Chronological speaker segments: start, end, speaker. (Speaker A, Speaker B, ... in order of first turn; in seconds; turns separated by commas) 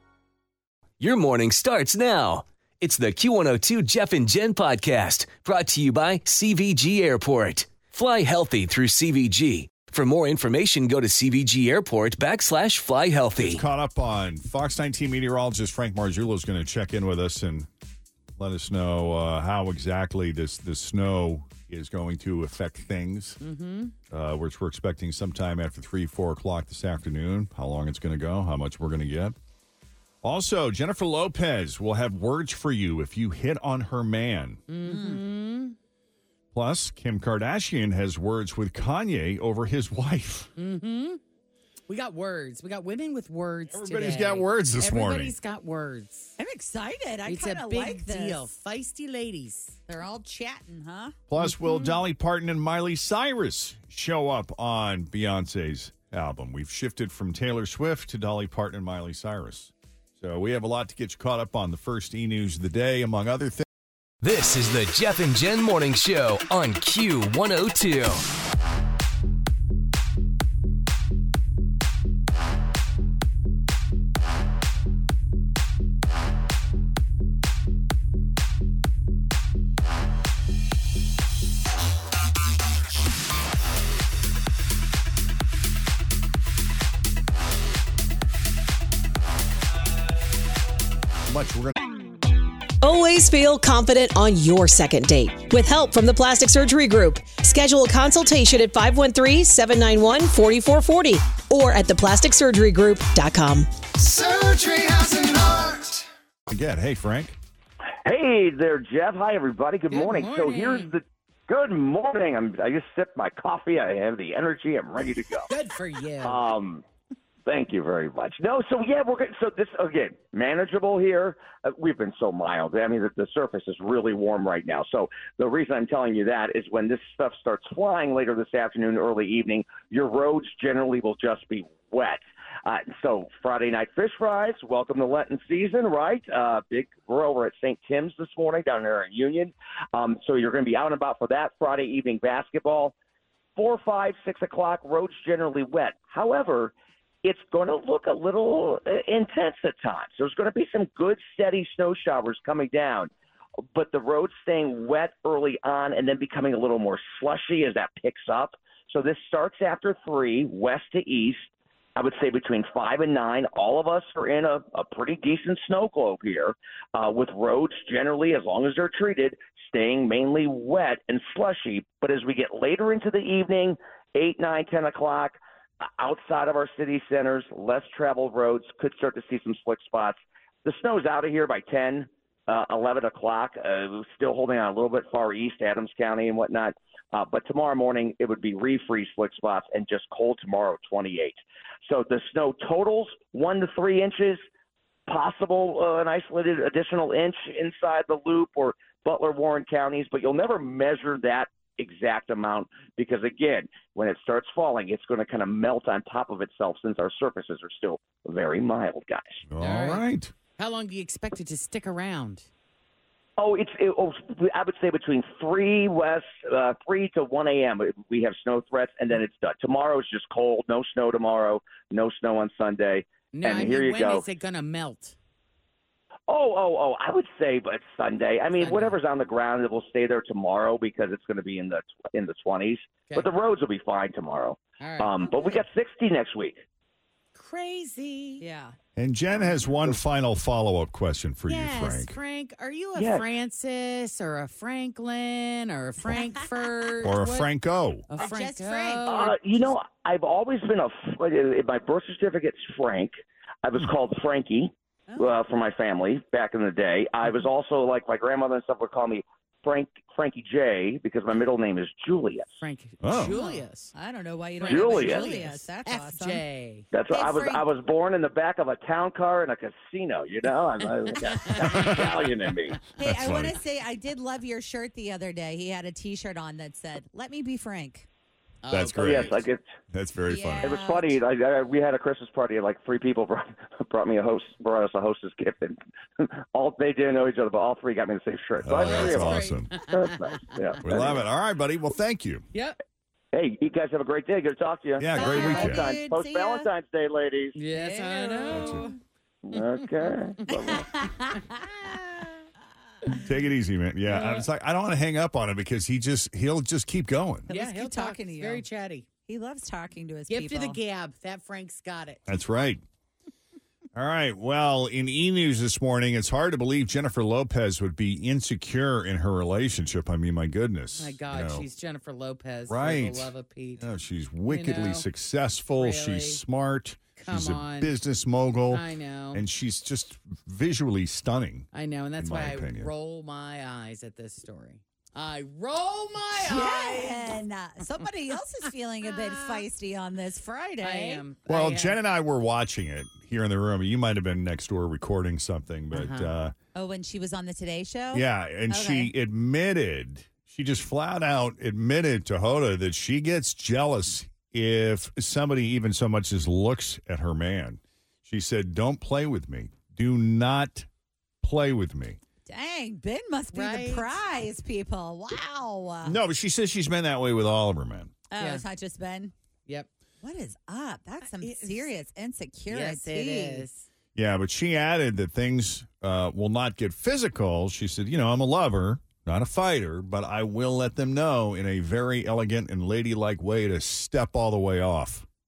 Speaker A: 1.0-13.6, Speaker B: 13.4-17.7, Speaker B: 18.4-23.4, Speaker C: 23.4-23.9, Speaker B: 24.1-29.4, Speaker B: 30.2-34.6, Speaker C: 34.7-35.8, Speaker D: 34.8-35.2, Speaker B: 36.5-40.5, Speaker C: 40.6-41.2, Speaker C: 41.9-46.4, Speaker B: 43.7-45.4, Speaker D: 46.4-48.5, Speaker C: 47.2-49.8, Speaker D: 49.9-51.1, Speaker B: 51.3-63.6, Speaker C: 51.4-52.0, Speaker A: 64.2-68.2, Speaker B: 91.3-91.7, Speaker E: 92.8-103.7, Speaker B: 106.5-107.4, Speaker F: 108.0-115.5, Speaker C: 109.9-110.9, Speaker C: 115.5-116.4, Speaker F: 116.2-116.8, Speaker F: 117.5-142.9, Speaker F: 143.6-146.7, Speaker F: 147.2-153.1, Speaker F: 153.7-194.4, Speaker F: 195.1-209.4, Speaker B: 209.5-210.3, Speaker C: 209.6-210.0, Speaker C: 210.6-212.5, Speaker F: 213.4-224.2, Speaker C: 223.3-225.2, Speaker F: 226.3-236.6, Speaker C: 228.6-229.0, Speaker C: 234.8-235.6, Speaker C: 237.3-238.4, Speaker D: 238.4-238.8, Speaker B: 238.9-242.2, Speaker C: 241.5-247.5, Speaker F: 242.9-243.2, Speaker B: 247.0-248.1, Speaker C: 248.1-249.7, Speaker D: 248.2-249.3, Speaker F: 249.1-262.5, Speaker D: 255.1-255.3, Speaker C: 262.6-263.9, Speaker B: 263.0-263.5, Speaker D: 263.2-266.4, Speaker C: 264.6-266.9, Speaker F: 264.7-265.2, Speaker F: 266.9-272.8, Speaker D: 267.1-267.6, Speaker C: 271.2-272.0, Speaker B: 271.7-272.2, Speaker D: 273.0-278.1, Speaker B: 273.0-273.6, Speaker C: 278.6-279.4, Speaker B: 278.7-280.8, Speaker F: 278.9-279.6, Speaker D: 280.3-281.2, Speaker F: 280.6-291.2, Speaker B: 288.6-289.7, Speaker C: 288.8-291.1, Speaker B: 290.8-292.5, Speaker F: 293.3-297.6, Speaker B: 295.0-295.9, Speaker D: 295.1-296.7, Speaker C: 297.6-298.9, Speaker D: 297.7-298.9, Speaker B: 298.5-298.9, Speaker F: 299.5-300.4, Speaker C: 299.5-302.4, Speaker D: 300.5-301.6, Speaker B: 303.2-307.5, Speaker C: 304.1-304.5, Speaker D: 307.5-308.6, Speaker C: 307.5-309.1, Speaker D: 309.2-310.8, Speaker C: 310.3-312.3, Speaker B: 312.3-312.8, Speaker B: 313.9-321.7, Speaker C: 321.0-323.8, Speaker B: 322.7-332.9, Speaker C: 324.5-325.1, Speaker C: 325.7-326.4, Speaker C: 327.2-327.9, Speaker C: 328.7-329.4, Speaker C: 331.7-337.4, Speaker D: 336.4-341.2, Speaker C: 339.0-339.6, Speaker C: 340.8-342.0, Speaker B: 341.5-346.5, Speaker C: 345.9-346.3, Speaker D: 346.7-349.1, Speaker B: 348.1-360.9, Speaker B: 361.4-362.2, Speaker D: 362.4-366.2, Speaker C: 363.5-364.2, Speaker B: 366.0-368.1, Speaker D: 368.3-369.3, Speaker C: 368.4-368.6, Speaker D: 370.2-373.6, Speaker C: 371.3-371.9, Speaker C: 372.7-373.9, Speaker B: 374.1-385.2